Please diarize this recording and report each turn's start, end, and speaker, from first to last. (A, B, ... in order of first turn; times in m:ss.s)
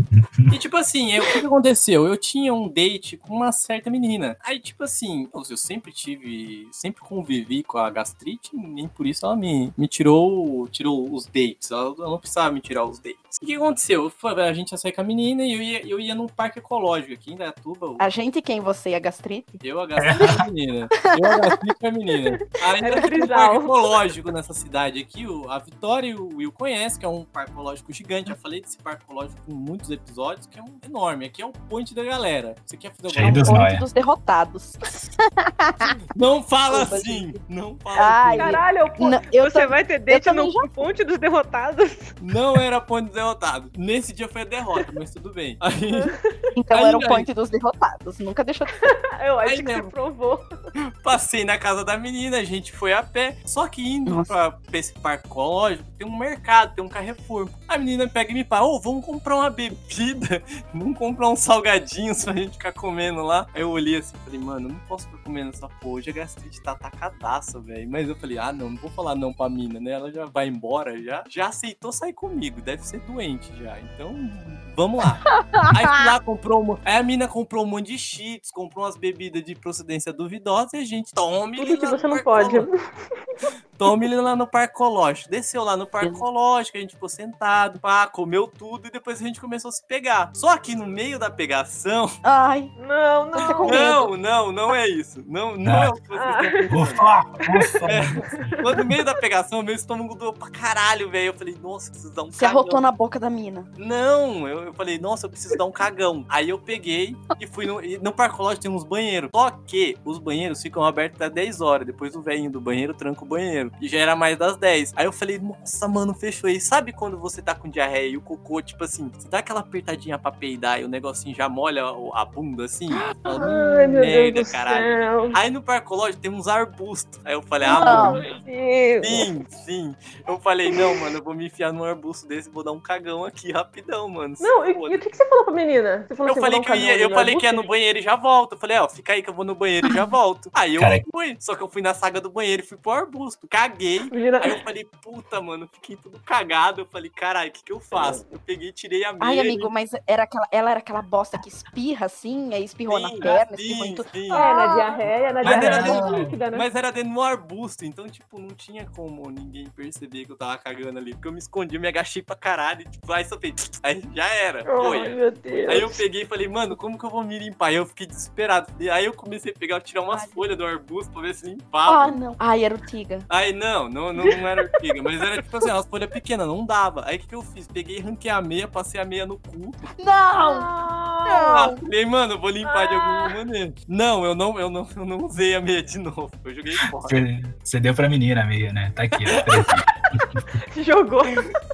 0:00.5-0:18.0 A
0:18.0-0:19.6 B
0:19.6-0:33.6 A
0:20.0-0:20.4 C
0:20.1-0:20.4 B
0:21.1-0:21.5 B
0:22.8-0:23.3 B
0:22.8-0:23.7 D
0:33.0-0:33.8 C
0:33.2-0:36.0 B
0:36.1-0:38.6 A
0:36.7-0:37.4 B
0:37.9-0:40.8 B
0:38.4-0:42.2 D
0:42.2-0:46.1 A
0:45.9-0:46.4 D
0:46.5-0:48.8 B
0:46.7-0:47.3 A
0:48.8-0:50.5 D
0:49.4-0:49.9 A
0:50.8-1:22.7 A
0:54.1-0:54.3 B
1:15.4-1:16.1 B
1:21.6-1:22.8 D
1:23.8-1:32.1 A
1:32.2-1:32.7 B
1:32.8-1:33.9 D
1:33.3-1:34.1 B
1:33.6-1:37.0 A
1:35.6-1:35.9 C
1:36.2-1:36.7 D
1:36.7-1:38.5 C
1:37.8-1:42.8 A
1:38.2-1:38.8 D
1:42.3-1:43.7 B
1:43.8-2:08.4 A
2:02.9-2:03.5 B
2:03.3-2:05.3 D
2:07.6-2:09.3 D
2:07.7-2:08.2 B
2:09.0-2:15.0 A
2:14.4-2:17.7 D
2:16.2-2:29.7 A
2:20.8-2:21.0 C
2:24.1-2:24.6 D
2:29.2-2:35.0 B
2:32.9-2:34.4 A
2:34.3-2:36.7 D
2:35.4-2:52.2 A
2:35.4-2:36.2 C
2:35.6-2:36.3 B
2:44.7-2:46.0 D
2:50.1-2:50.4 B
2:51.9-2:53.3 B
2:53.3-2:59.8 A
3:00.0-3:00.7 B
3:00.3-3:01.5 D
3:01.2-3:01.8 B
3:01.5-3:07.2 A
3:02.6-3:03.3 D
3:07.0-3:09.9 C
3:09.4-3:09.7 D
3:10.3-3:11.5 D